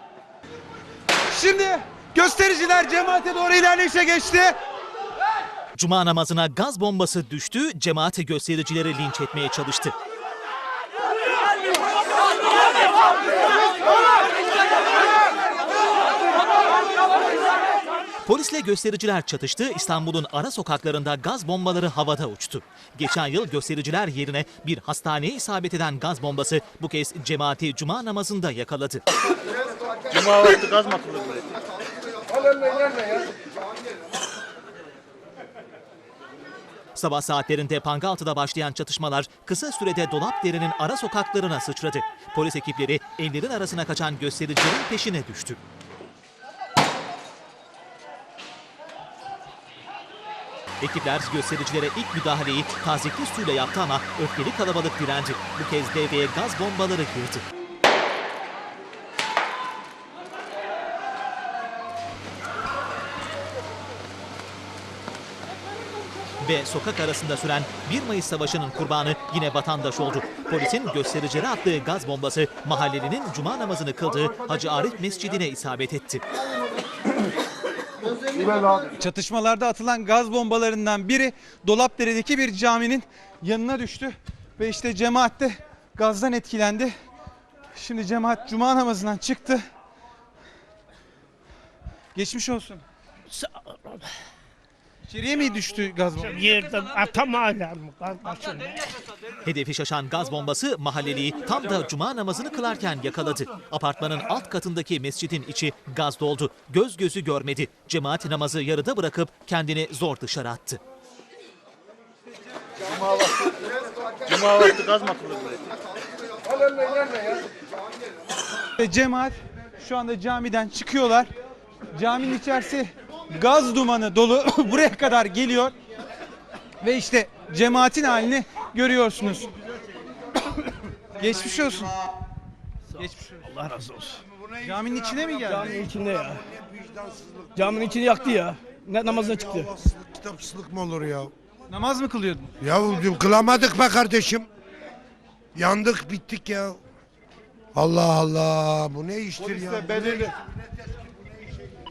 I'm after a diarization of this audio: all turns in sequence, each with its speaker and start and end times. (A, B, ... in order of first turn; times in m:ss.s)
0:01.3-0:04.5 A
0:05.8-0:09.9 B
0:18.2-0:29.0 B
0:30.2-0:31.4 C
0:37.0-0:45.6 B
0:50.8-0:57.4 B
1:06.4-1:16.2 B
1:18.8-1:26.9 A
1:27.8-1:29.6 A
1:32.2-1:32.8 A
1:33.3-1:34.0 D
1:35.1-1:36.8 A
1:36.7-1:38.8 D
1:39.4-1:50.8 B
1:54.4-1:55.6 C
1:58.8-2:01.3 A
2:01.9-2:05.7 A
2:06.8-2:09.5 A
2:11.2-2:11.9 A
2:13.0-2:13.4 A
2:13.4-2:14.2 D
2:14.6-2:15.7 A
2:15.5-2:16.4 D
2:16.7-2:17.7 E
2:17.6-2:19.7 D
2:19.2-2:21.3 E
2:21.7-2:22.5 A
2:22.6-2:24.5 E
2:25.6-2:26.8 E
2:27.8-2:30.4 E